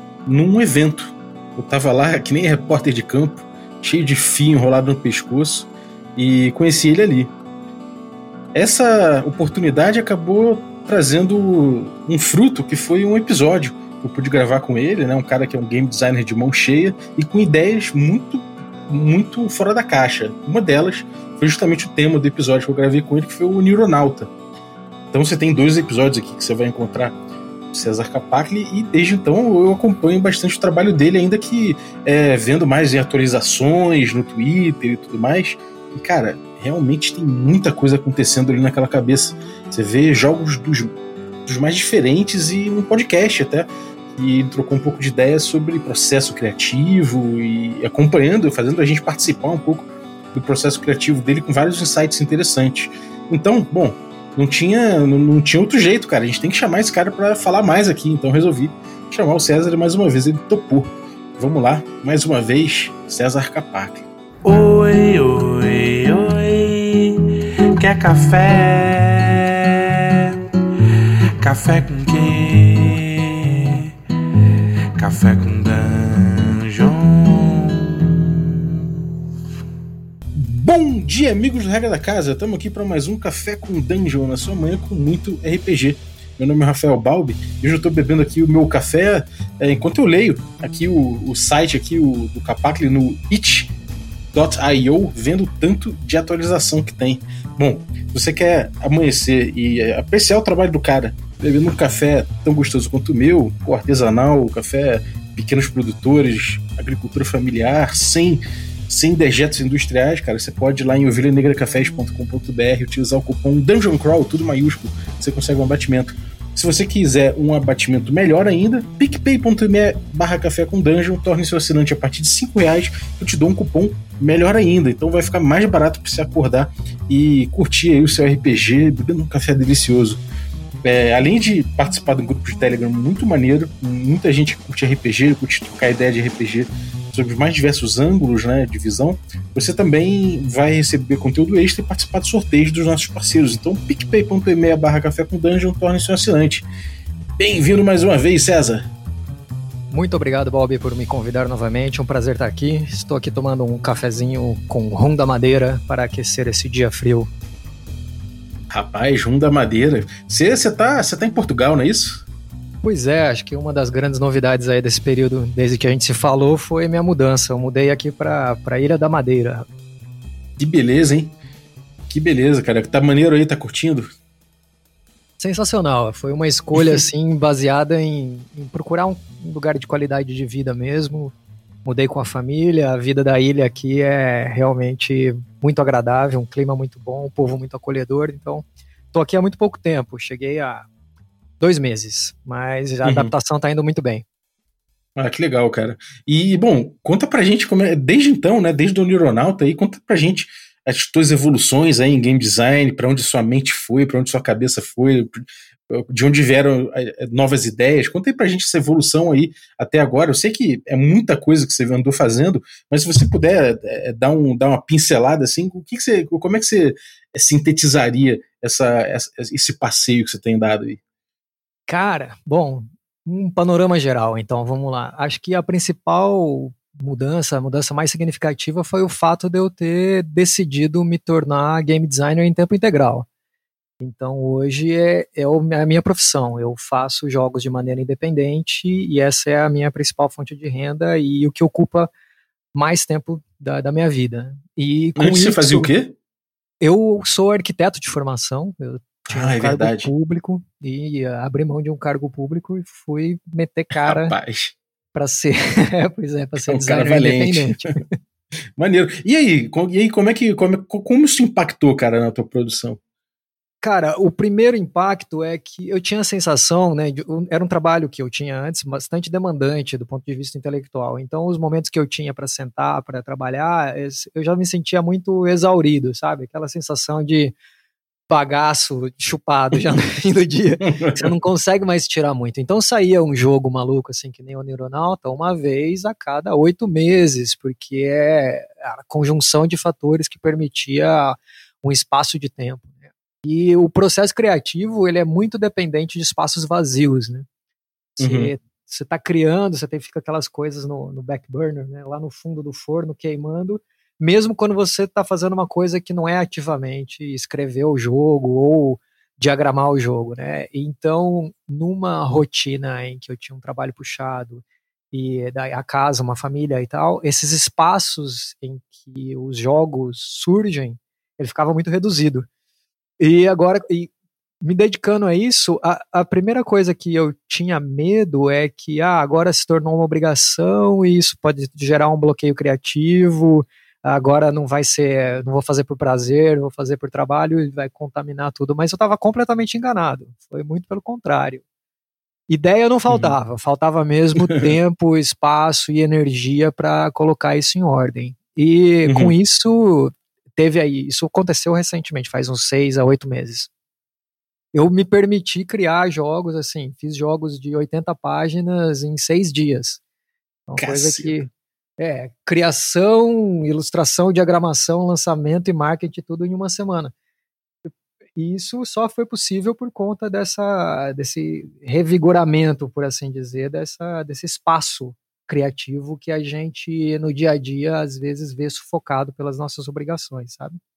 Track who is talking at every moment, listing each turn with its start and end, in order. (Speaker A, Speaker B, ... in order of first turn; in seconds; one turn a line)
Speaker A: 0.2-7.3
Speaker A: 8.5-24.3
Speaker A: 25.1-27.2
Speaker A: 27.7-40.9
Speaker A: 41.5-64.0
Speaker B: 64.4-67.2
Speaker B: 67.8-69.5
Speaker B: 71.4-73.8
Speaker B: 75.0-78.7
Speaker A: 80.3-93.7
Speaker A: 94.3-130.2
Speaker A: 130.8-146.7
Speaker A: 147.4-148.9
Speaker C: 149.9-157.3
Speaker A: 158.7-162.2
Speaker C: 162.8-169.7
Speaker A: 170.6-171.3
Speaker A: 172.1-174.1
Speaker C: 175.4-181.3
Speaker C: 181.8-190.9
Speaker C: 191.6-194.2
Speaker A: 193.0-193.3
Speaker A: 195.2-221.0
Speaker C: 221.9-233.2
Speaker C: 234.0-242.1
Speaker C: 242.7-245.9
Speaker A: 245.2-246.1
Speaker C: 246.8-254.3
Speaker A: 249.2-250.1
Speaker A: 253.9-254.8
Speaker C: 255.1-258.1
Speaker A: 256.6-257.8
Speaker A: 258.8-263.0
Speaker C: 263.8-277.5
Speaker C: 278.3-297.5
Speaker A: 280.9-281.2
Speaker C: 298.1-322.5
Speaker A: 298.2-298.5
Speaker C: 323.2-324.1
Speaker C: 324.6-341.6
Speaker C: 342.5-353.7
Speaker A: 343.1-343.4
Speaker A: 349.0-349.3
Speaker C: 354.7-360.0
Speaker C: 360.7-367.1
Speaker A: 360.8-361.4
Speaker C: 367.9-380.8